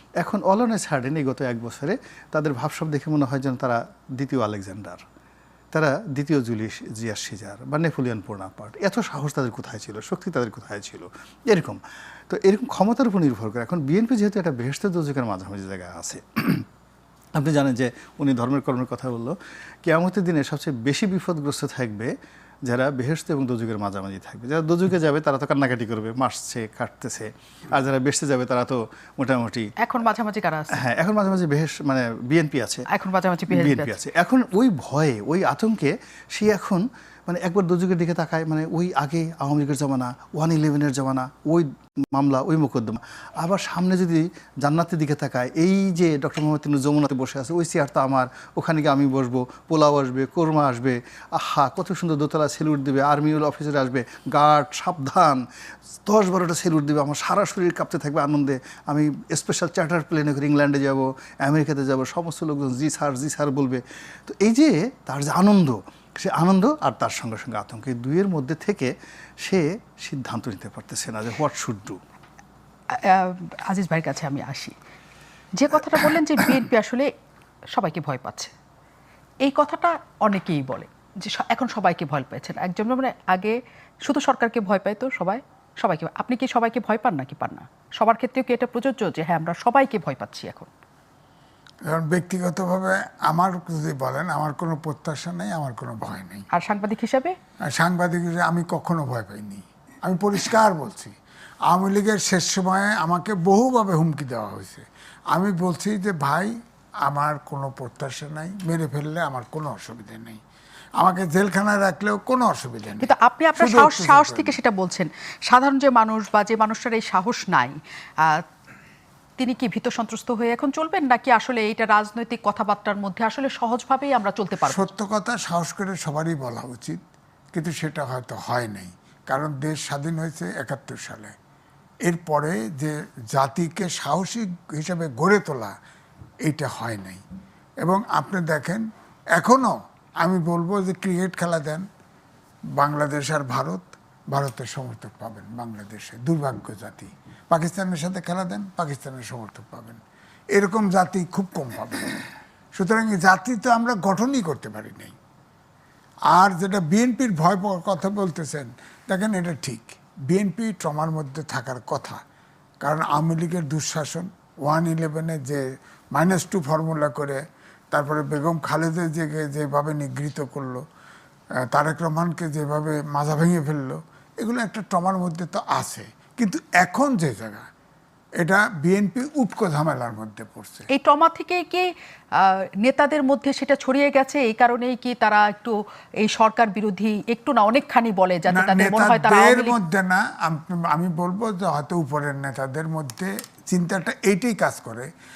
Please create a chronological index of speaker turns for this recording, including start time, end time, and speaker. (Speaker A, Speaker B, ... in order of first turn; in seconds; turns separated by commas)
Speaker A: 0.2-5.0, Speaker A: 5.7-16.7, Speaker A: 17.3-22.1, Speaker A: 22.7-29.7, Speaker B: 29.8-30.8, Speaker A: 30.8-32.8, Speaker B: 32.9-34.0, Speaker A: 33.5-55.4, Speaker A: 56.0-68.9, Speaker A: 69.5-72.0, Speaker B: 72.9-74.8, Speaker B: 75.5-77.1, Speaker B: 77.7-78.5, Speaker B: 79.4-90.7, Speaker C: 91.9-96.5, Speaker B: 96.5-97.3, Speaker C: 97.7-101.2, Speaker C: 101.7-106.5, Speaker C: 107.0-110.4, Speaker C: 111.0-114.6, Speaker B: 113.0-118.4, Speaker B: 119.4-124.8, Speaker C: 124.7-127.0, Speaker C: 127.5-131.3, Speaker C: 132.1-135.8, Speaker C: 136.5-137.2, Speaker C: 137.8-141.8, Speaker C: 142.8-150.0, Speaker C: 150.5-152.2, Speaker C: 152.8-155.2, Speaker C: 156.3-162.2, Speaker C: 162.8-165.6, Speaker C: 166.2-170.8, Speaker C: 171.7-177.7, Speaker C: 178.4-180.9, Speaker B: 180.9-181.8, Speaker B: 182.4-189.8, Speaker C: 188.5-195.1